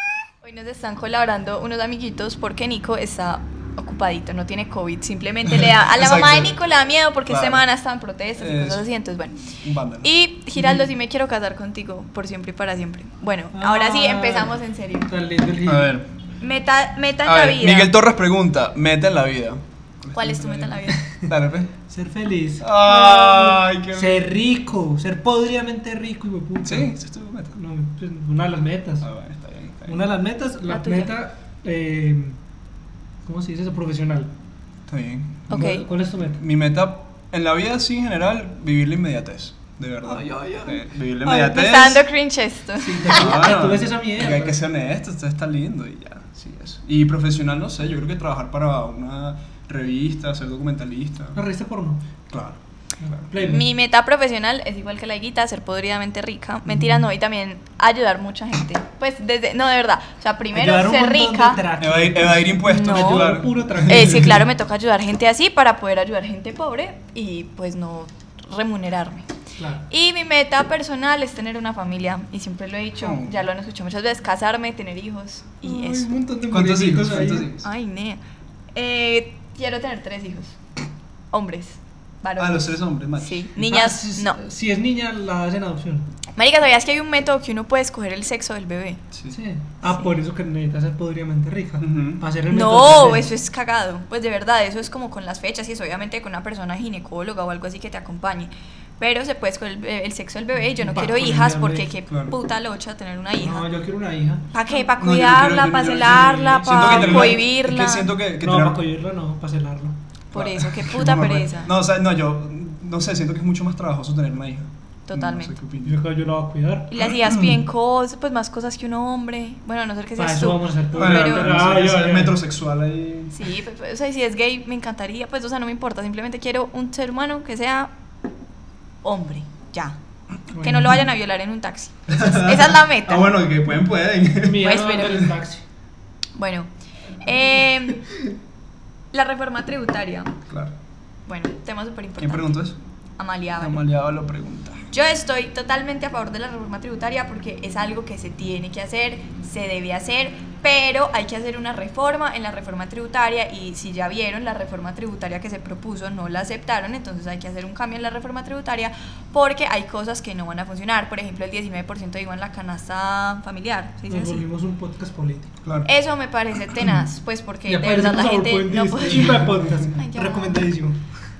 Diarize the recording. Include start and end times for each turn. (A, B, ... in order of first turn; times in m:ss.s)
0:00.4-0:15.1 A
0:05.5-0:06.6 B
0:07.3-0:07.6 B
0:08.4-0:08.8 B
0:09.6-0:10.1 B
0:10.6-0:10.8 C
0:13.5-0:14.5 C
0:15.1-0:16.0 C
0:15.6-0:16.1 B
0:16.4-0:17.9 A
0:17.2-0:21.7 B
0:20.1-0:21.1 A
0:21.9-0:26.9 C
0:22.6-0:24.3 B
0:26.6-0:27.6 B
0:27.5-0:29.1 C
0:29.0-0:30.1 B
0:29.9-0:32.4 C
0:30.6-0:31.1 A
0:33.2-0:34.3 C
0:34.9-0:35.6 B
0:35.5-0:36.4 C
0:35.5-0:35.8 A
0:36.4-0:42.0 B
0:40.0-0:40.8 C
0:41.2-0:43.4 A
0:42.8-0:44.5 C
0:43.0-0:51.4 B
0:51.3-0:52.0 C
0:52.3-0:52.6 B
0:53.0-0:53.7 C
0:53.4-1:01.6 A
0:56.7-0:57.0 C
1:00.5-1:04.4 C
1:01.8-1:04.4 B
1:02.6-1:03.3 A
1:03.9-1:09.2 A
1:09.6-1:09.8 C
1:09.9-1:16.1 A
1:13.0-1:13.3 B
1:15.6-1:17.5 C
1:16.5-1:17.7 B
1:17.6-1:18.2 A
1:18.7-1:20.6 A
1:21.3-1:24.4 A
1:22.4-1:23.5 B
1:23.6-1:26.0 C
1:26.4-1:29.0 A
1:29.3-1:33.3 C
1:31.8-1:32.2 B
1:32.5-1:43.6 A
1:40.8-1:41.9 C
1:42.1-1:42.4 B
1:43.4-1:44.6 C
1:44.5-1:48.1 A
1:45.0-1:48.8 B
1:46.1-1:47.4 C
1:48.4-1:50.0 C
1:50.3-1:56.0 B
1:50.3-1:51.7 A
1:55.1-1:55.5 A
1:55.8-1:56.9 C
1:56.9-2:01.5 A
1:57.0-1:57.5 B
2:00.2-2:02.4 C
2:01.0-2:03.5 B
2:03.3-2:07.9 A
2:09.0-2:10.0 A
2:10.5-2:11.0 C
2:10.6-2:13.3 A
2:12.1-2:15.3 B
2:14.4-2:15.6 C
2:14.6-2:15.3 A
2:16.4-2:16.7 A
2:17.2-2:18.0 A
2:19.1-2:20.4 A
2:20.5-2:20.7 B
2:21.3-2:22.6 A
2:22.2-2:22.8 B
2:23.2-2:23.8 A
2:23.6-2:24.8 B
2:24.9-2:44.4 A
2:44.1-2:45.5 C
2:45.6-2:45.9 B
2:45.8-2:50.6 A
2:47.7-2:51.0 C